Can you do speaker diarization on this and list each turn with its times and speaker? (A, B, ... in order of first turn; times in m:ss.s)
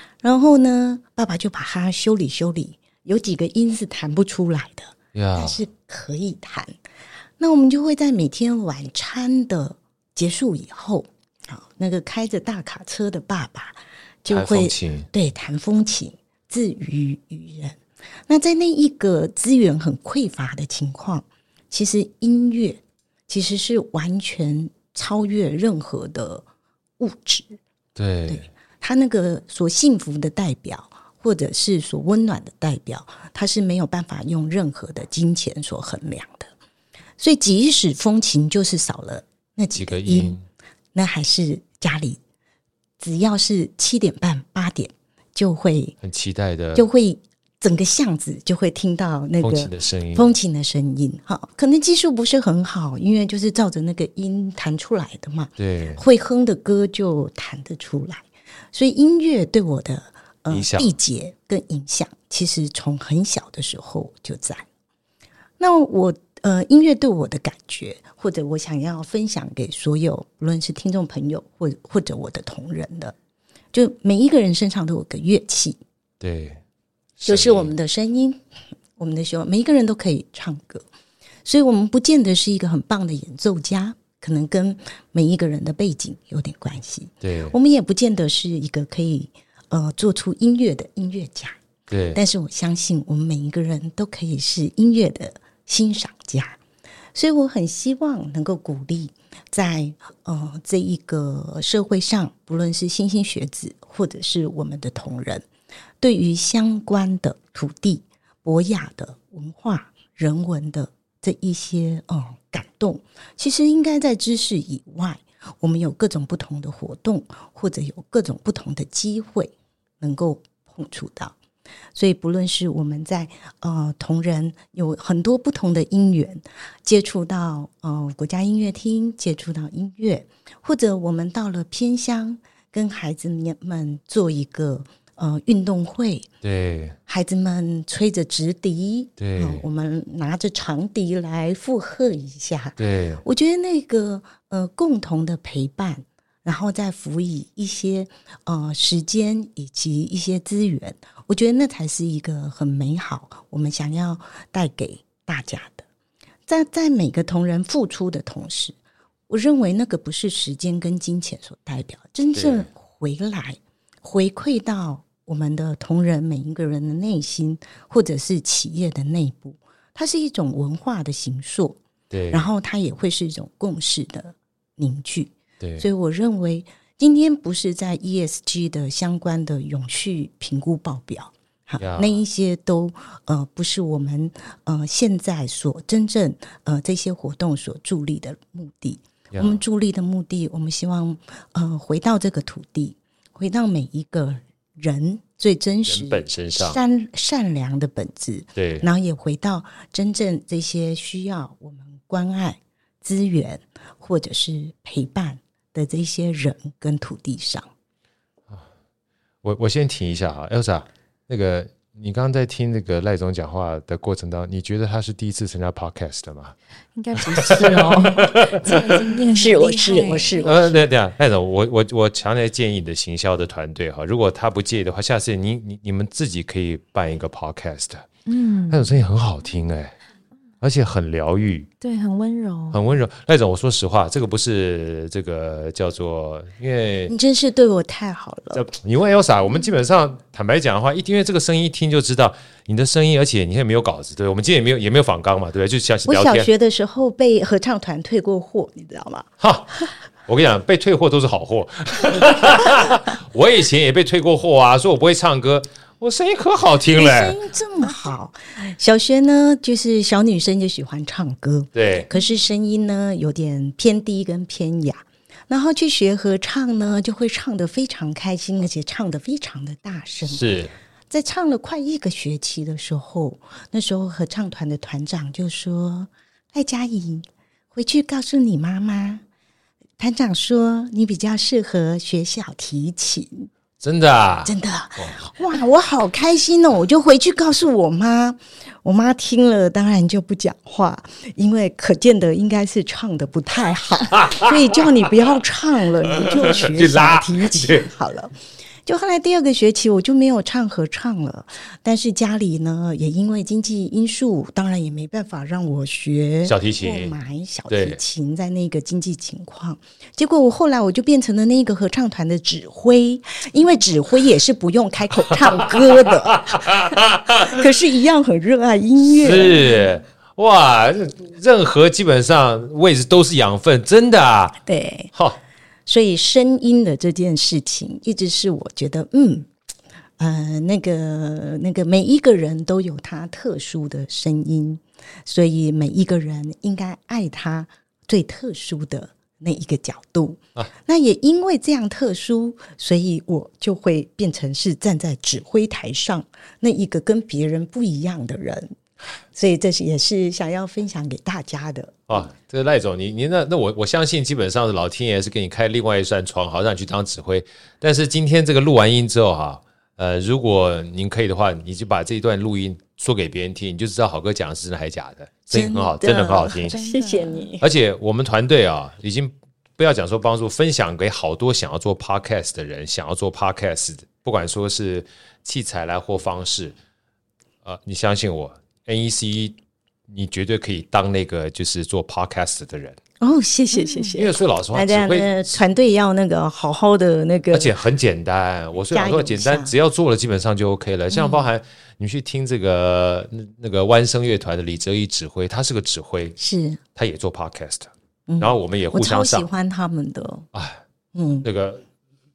0:00.2-0:06.7 A
0:05.1-0:05.6 B
0:07.4-0:26.4 A
0:14.3-0:15.1 B
0:27.0-0:27.6 A
0:28.0-0:28.5 B
0:28.3-0:36.5 A
0:37.2-0:40.4 A
0:39.7-0:40.4 B
0:40.9-0:42.2 A
0:43.0-0:46.0 A
0:46.0-0:46.8 B
0:46.7-1:04.6 A
0:49.4-0:50.3 B
0:55.6-0:56.0 B
1:00.5-1:01.0 B
1:05.6-1:13.1 A
1:13.7-1:15.8 A
1:16.2-1:16.6 B
1:17.2-1:17.7 B
1:17.2-1:18.4 A
1:19.0-1:20.8 A
1:21.4-1:31.6 A
1:27.2-1:27.5 B
1:31.9-1:32.2 B
1:32.1-1:36.6 A
1:37.1-1:45.4 A
1:46.0-2:01.4 A
2:01.9-2:16.3 A
2:16.4-2:17.0 B
2:17.1-2:35.8 A
2:19.2-2:19.6 B
2:22.8-2:23.2 B
2:36.5-2:38.8 A
2:39.3-3:27.7 A
2:42.3-2:42.7 B
2:52.1-2:52.5 B
2:55.6-2:55.9 B
3:01.8-3:02.2 B
3:09.3-3:09.6 B
3:15.8-3:16.8 B
3:18.6-3:18.9 B
3:29.4-3:36.5 B
3:37.0-3:40.5 C
3:37.2-3:39.0 B
3:39.3-3:40.8 A
3:40.4-3:48.1 B
3:48.2-3:49.0 C
3:48.7-3:50.0 B
3:50.6-3:51.7 B
3:51.8-3:52.8 C
3:52.7-3:57.1 B
3:57.1-3:58.6 A
3:58.5-4:06.5 B
4:06.0-4:09.3 A
4:09.4-4:17.4 B
4:12.2-4:12.8 A
4:16.9-4:30.5 A
4:21.7-4:22.1 B
4:30.2-4:30.7 B
4:31.1-4:39.2 A
4:40.0-4:43.5 A
4:43.8-4:45.2 B
4:44.4-5:19.8 A
4:54.1-4:54.9 B
4:56.1-4:57.9 B
5:06.4-5:07.2 B
5:07.7-5:08.0 B
5:15.5-5:17.6 B
5:19.2-5:24.6 B
5:24.6-5:25.1 A
5:25.1-5:25.4 B
5:25.8-5:29.5 A
5:30.2-5:48.7 A
5:49.3-5:52.2 A
5:52.1-6:06.7 B
6:05.5-6:07.6 A
6:06.6-6:07.5 C
6:07.6-6:16.7 B
6:17.6-6:19.6 B
6:20.1-6:23.0 B
6:23.2-6:27.7 A
6:23.7-6:24.1 C
6:24.1-6:25.6 B
6:27.5-6:36.4 B
6:28.9-6:29.7 A
6:31.1-6:31.5 A
6:36.4-6:36.8 A
6:36.9-6:39.5 B
6:38.3-6:40.5 A
6:40.5-6:40.8 B
6:41.1-6:41.4 A
6:41.4-6:41.8 B